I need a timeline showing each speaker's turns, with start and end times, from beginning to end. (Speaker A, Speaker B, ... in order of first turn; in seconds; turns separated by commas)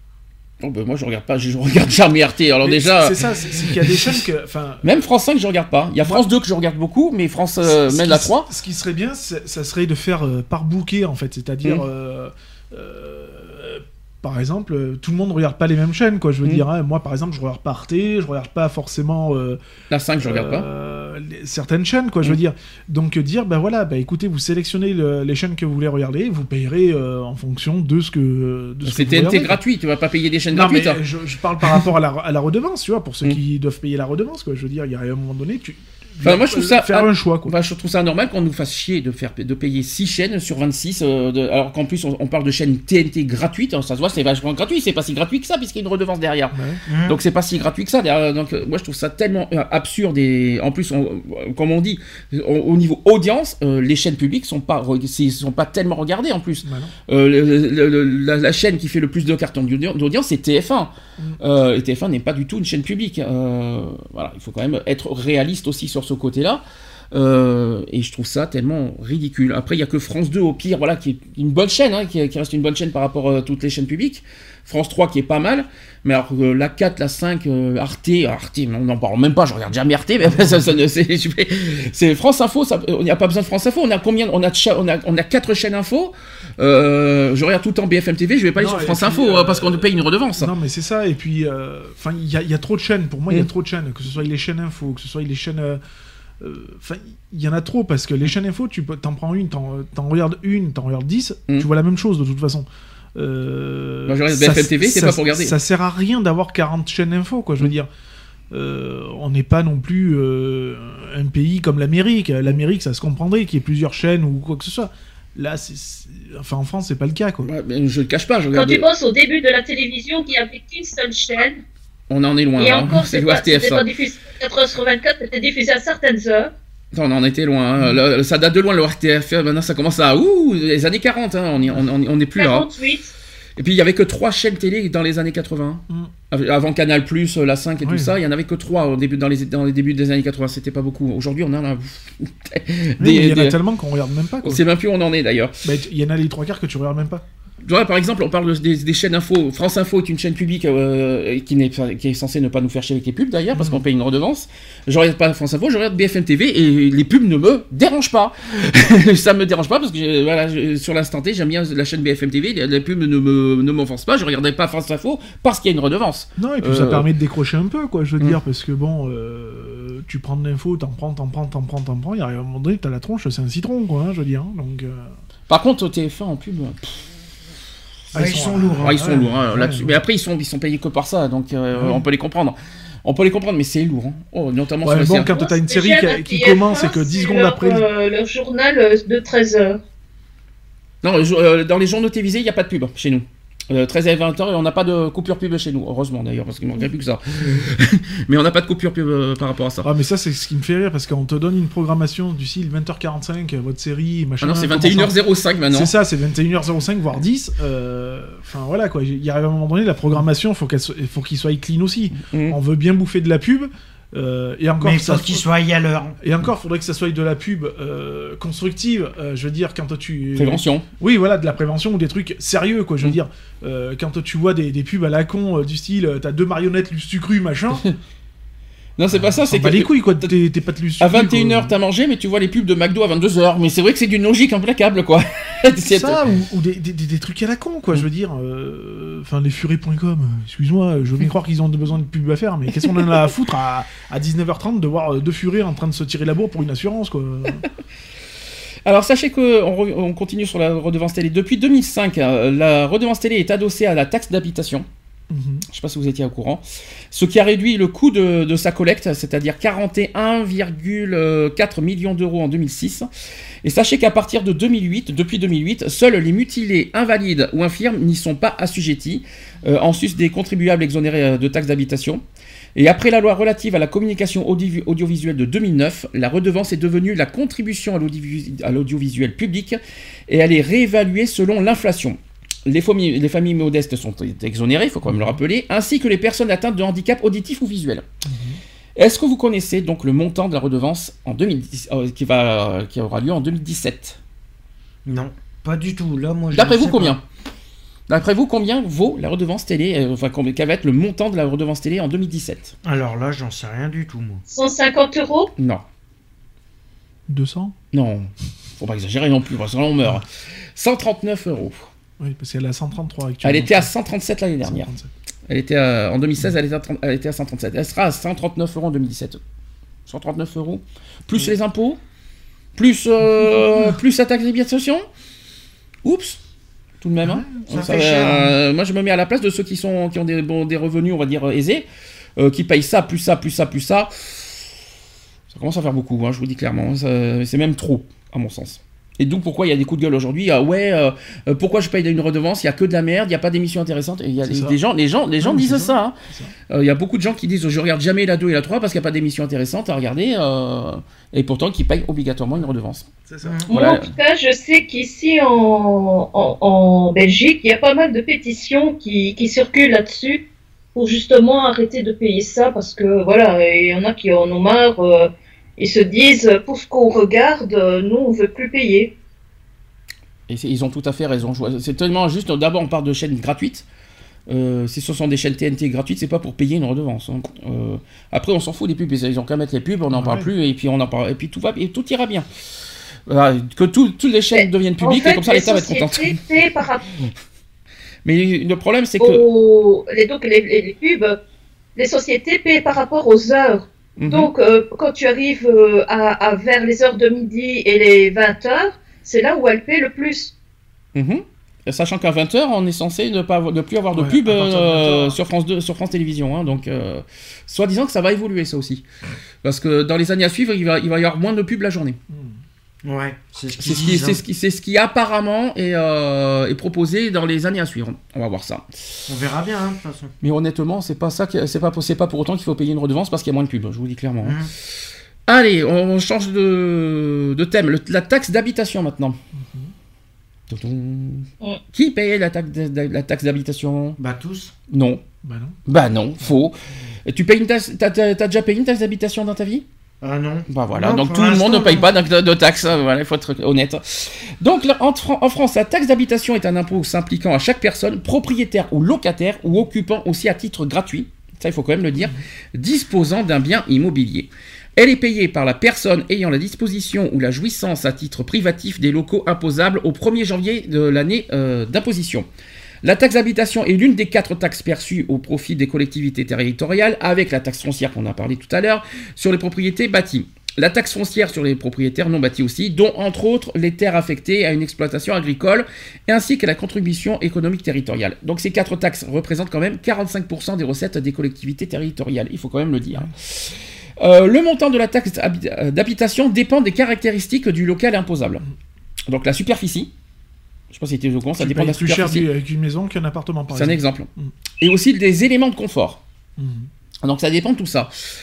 Speaker A: 0.6-4.0, Speaker B: 2.6-4.9, Speaker A: 4.8-8.5, Speaker B: 6.0-6.2, Speaker B: 7.6-19.6, Speaker A: 19.9-20.7, Speaker B: 20.2-29.6, Speaker A: 28.8-31.0, Speaker B: 30.5-37.5, Speaker A: 36.2-90.5, Speaker B: 46.5-46.8, Speaker C: 46.9-47.2, Speaker B: 56.6-56.9, Speaker B: 80.2-80.8, Speaker B: 88.5-95.8, Speaker B: 96.4-107.9, Speaker A: 104.1-105.5, Speaker B: 108.5-117.5, Speaker A: 117.4-118.8, Speaker D: 118.5-121.6, Speaker A: 122.1-123.8, Speaker D: 122.6-126.5, Speaker A: 126.9-132.7, Speaker D: 132.3-133.1, Speaker A: 133.6-143.6, Speaker B: 137.8-138.1, Speaker B: 143.0-144.6, Speaker A: 144.4-145.6, Speaker B: 145.6-147.2, Speaker A: 147.6-167.1, Speaker B: 153.5-153.8, Speaker B: 166.4-175.1, Speaker A: 175.5-177.0, Speaker A: 178.1-185.3, Speaker B: 178.1-180.0, Speaker C: 178.1-179.3, Speaker B: 181.7-182.0, Speaker B: 184.8-187.8, Speaker D: 185.2-189.8, Speaker A: 191.0-199.9, Speaker B: 199.8-205.2, Speaker A: 204.4-205.9, Speaker B: 205.7-215.4, Speaker A: 212.1-212.6, Speaker C: 214.8-216.2, Speaker B: 216.2-227.8, Speaker A: 220.3-220.8, Speaker A: 229.0-230.3, Speaker B: 229.1-231.8, Speaker A: 231.0-236.2, Speaker B: 235.9-247.6, Speaker A: 248.8-254.8, Speaker B: 255.3-255.6, Speaker A: 255.7-263.1, Speaker A: 263.6-272.2, Speaker A: 272.7-288.0, Speaker B: 285.0-285.4, Speaker B: 288.2-288.6, Speaker A: 288.9-294.2, Speaker C: 295.1-297.2, Speaker A: 296.5-297.2, Speaker A: 298.1-302.7, Speaker C: 302.8-304.4, Speaker D: 304.5-305.5, Speaker A: 305.6-305.8, Speaker B: 307.3-307.7, Speaker A: 307.9-311.9, Speaker B: 312.2-313.9, Speaker A: 313.4-314.9, Speaker B: 314.6-315.1, Speaker A: 315.5-319.4, Speaker A: 320.1-322.0, Speaker A: 322.7-325.1, Speaker B: 323.4-323.9, Speaker A: 326.0-326.4, Speaker A: 327.0-331.9, Speaker B: 327.2-327.6, Speaker C: 327.7-328.6, Speaker A: 332.4-334.5, Speaker A: 335.5-346.1, Speaker B: 344.4-344.8, Speaker B: 345.4-346.5, Speaker A: 346.7-353.1, Speaker B: 353.2-353.6, Speaker C: 353.4-353.7, Speaker A: 353.7-354.1, Speaker D: 353.7-360.4, Speaker D: 360.9-369.1, Speaker A: 370.5-373.8, Speaker A: 374.5-382.4, Speaker B: 380.1-380.5, Speaker A: 383.3-386.4, Speaker D: 384.5-387.1, Speaker A: 388.2-389.4, Speaker D: 389.2-391.4, Speaker D: 391.9-400.5, Speaker A: 394.2-394.5, Speaker A: 401.1-409.0, Speaker B: 404.1-405.4, Speaker A: 409.6-412.2, Speaker B: 412.3-412.6, Speaker C: 413.0-414.4, Speaker A: 413.8-418.9, Speaker C: 419.3-420.3, Speaker A: 420.4-424.6, Speaker C: 424.4-424.7, Speaker A: 425.5-429.4, Speaker B: 429.5-429.9, Speaker A: 430.7-434.2, Speaker C: 434.2-434.7, Speaker A: 434.9-435.2, Speaker B: 435.4-435.8, Speaker A: 435.9-436.7, Speaker A: 437.2-439.8, Speaker C: 440.2-442.1, Speaker A: 440.7-462.5, Speaker A: 463.0-488.6, Speaker A: 489.3-490.1, Speaker A: 490.9-492.5, Speaker B: 491.5-494.5, Speaker A: 493.7-496.2, Speaker B: 496.6-496.9, Speaker A: 497.2-498.1